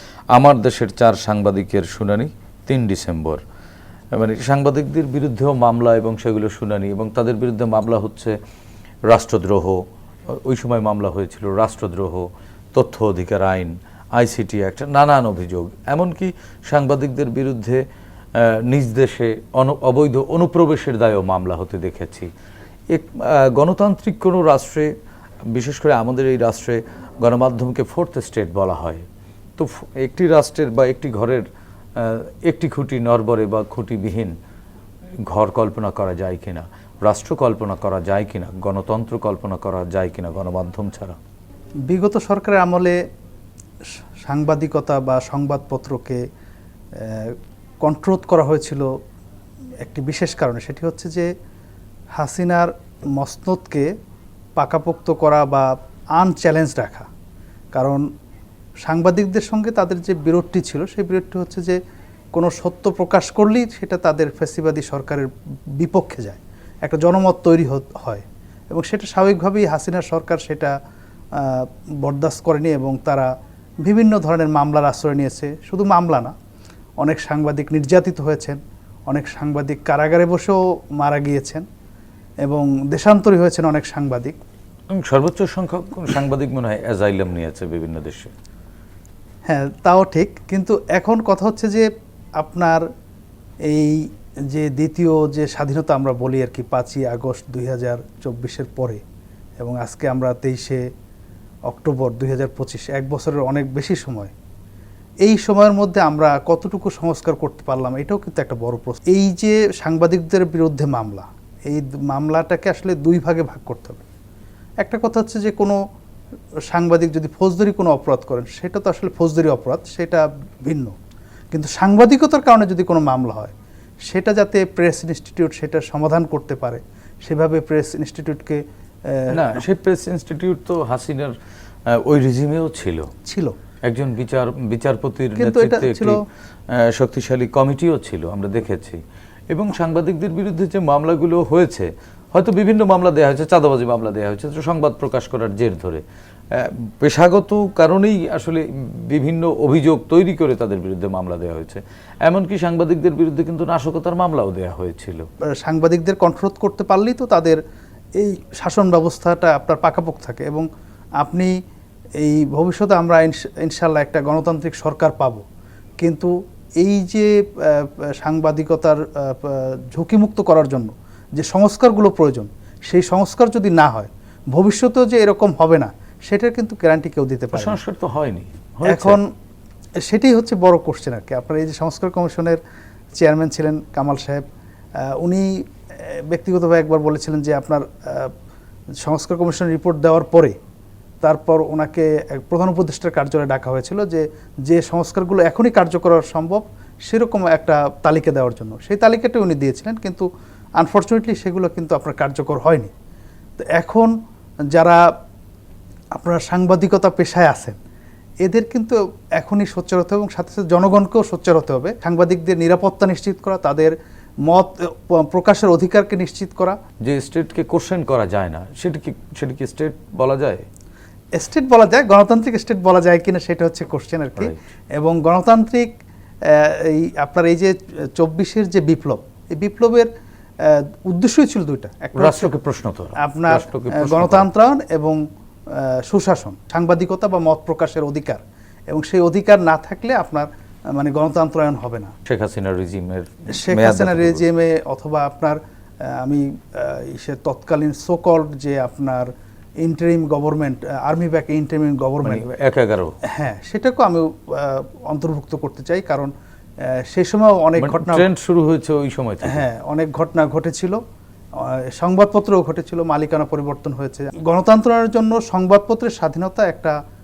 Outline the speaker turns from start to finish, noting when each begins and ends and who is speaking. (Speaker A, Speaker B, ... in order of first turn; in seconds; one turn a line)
Speaker A: 0.3-3.4
Speaker A: 4.2-8.4
Speaker A: 9.1-9.8
Speaker A: 10.3-17.8
Speaker A: 18.4-22.3
Speaker A: 22.9-24.9
Speaker A: 25.5-29.1
Speaker A: 29.6-34.3
Speaker A: 35.3-41.2
Speaker B: 41.9-43.0
Speaker B: 44.3-46.2
Speaker B: 47.0-48.9
Speaker B: 49.8-51.3
Speaker B: 52.2-53.9
Speaker B: 54.6-57.1
Speaker B: 57.7-58.0
Speaker B: 58.8-61.8
Speaker B: 62.4-70.7
Speaker B: 71.4-73.3
Speaker B: 73.8-76.3
Speaker B: 77.0-81.7
Speaker B: 82.5-84.4
Speaker A: 84.9-88.3
Speaker B: 89.5-92.8
Speaker B: 93.7-99.0
Speaker B: 99.6-100.8
Speaker B: 101.7-104.3
Speaker B: 105.2-114.0
Speaker B: 114.8-115.8
Speaker B: 116.7-121.0
Speaker B: 121.5-123.5
Speaker B: 124.1-129.6
Speaker A: 129.3-131.3
Speaker A: 131.9-133.1
Speaker B: 133.3-133.6
Speaker A: 133.8-136.2
Speaker B: 135.4-136.2
Speaker A: 136.7-155.3
Speaker B: 155.6-157.6
Speaker B: 158.2-160.7
Speaker B: 161.2-161.5
Speaker B: 162.2-165.4
Speaker B: 166.0-177.8
Speaker A: 177.5-179.2
Speaker B: 178.9-179.3
Speaker B: 180.1-182.6
Speaker B: 183.2-184.4
Speaker B: 185.2-188.3
Speaker B: 189.0-190.6
Speaker B: 191.2-200.3
Speaker B: 200.8-202.9
Speaker B: 203.7-204.1
Speaker B: 204.7-205.0
Speaker B: 206.2-207.8
Speaker B: 208.4-213.9
Speaker B: 214.5-216.8
Speaker A: 217.0-220.6
Speaker B: 221.4-225.9
Speaker B: 226.5-230.1
Speaker B: 230.6-232.5
Speaker A: 232.2-234.5
Speaker B: 233.2-242.1
Speaker A: 242.3-244.4
Speaker B: 243.5-252.5
Speaker A: 252.2-253.2
Speaker B: 253.2-256.3
Speaker B: 256.8-258.3
Speaker A: 257.8-259.6
Speaker B: 259.4-261.0
Speaker B: 261.6-266.9